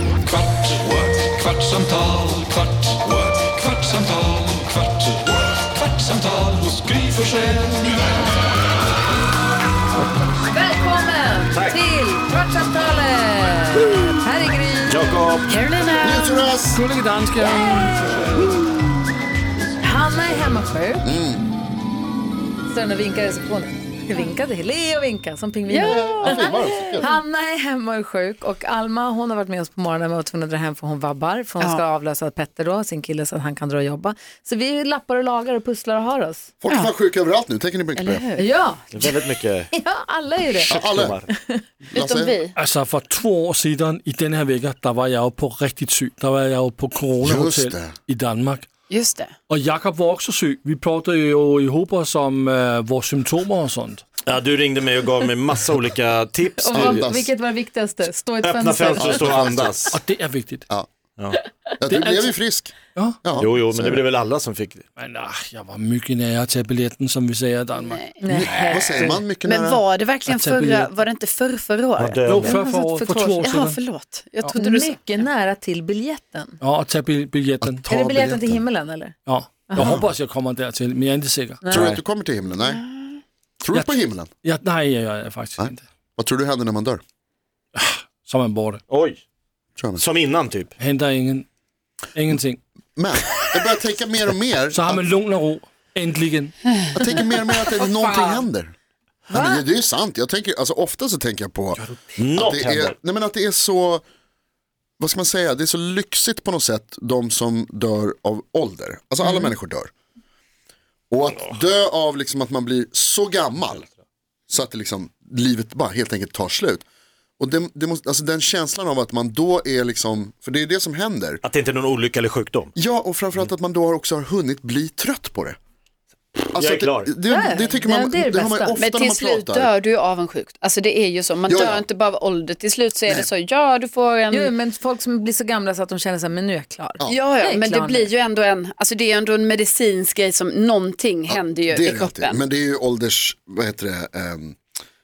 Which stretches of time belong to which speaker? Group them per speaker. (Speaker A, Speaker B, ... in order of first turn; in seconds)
Speaker A: 0.2-5.0, 5.9-6.4
Speaker B: 6.4-8.0, 16.7-18.4, 42.5-48.7, 49.5-54.0, 59.9-60.6, 61.9-62.3, 65.0-68.0, 70.2-70.9, 72.2-73.8, 76.6-77.8, 79.3-82.0, 83.7-85.8, 87.8-88.8, 90.8-91.5, 92.1-92.6, 94.7-96.5
Speaker C: 10.4-15.2, 17.4-18.4, 19.8-21.1, 22.7-36.5, 38.4-39.2, 39.7-40.7, 41.3-41.6, 56.6-59.3, 68.2-69.1, 72.5-73.5, 74.5-76.6, 77.9-79.2, 81.6-81.9, 99.3-99.6, 127.3-128.8, 134.3-138.1
Speaker D: 11.5-11.8, 14.9-15.5, 38.9-39.7, 40.5-41.3, 54.2-57.1, 58.4-60.0, 63.4-64.8, 72.0-72.5, 88.9-89.2, 90.0-90.7, 102.2-103.0, 121.4-122.7, 126.5-127.1
Speaker E: 15.4-16.5, 25.7-27.1, 38.0-38.5, 41.9-42.5, 48.9-49.3, 67.7-68.8, 69.4-75.0, 82.6-83.2, 128.8-134.5, 137.1-142.4
Speaker F: 16.0-16.8, 21.0-21.4, 25.8-27.1, 36.6-38.2, 40.7-41.2, 41.8-42.4, 47.2-47.9, 56.7-57.3, 59.1-59.7, 61.8-64.0, 68.3-69.8, 77.6-78.6, 79.8-80.1, 81.7-82.8, 83.6-84.3, 85.6-87.0, 89.8-90.0, 93.0-95.0, 96.9-98.7, 99.3-101.8, 102.3-104.0, 105.0-109.9, 111.1-113.9, 114.5-116.8, 117.4-121.4, 122.8-125.6, 126.5-129.7, 131.5-131.8, 141.3-144.6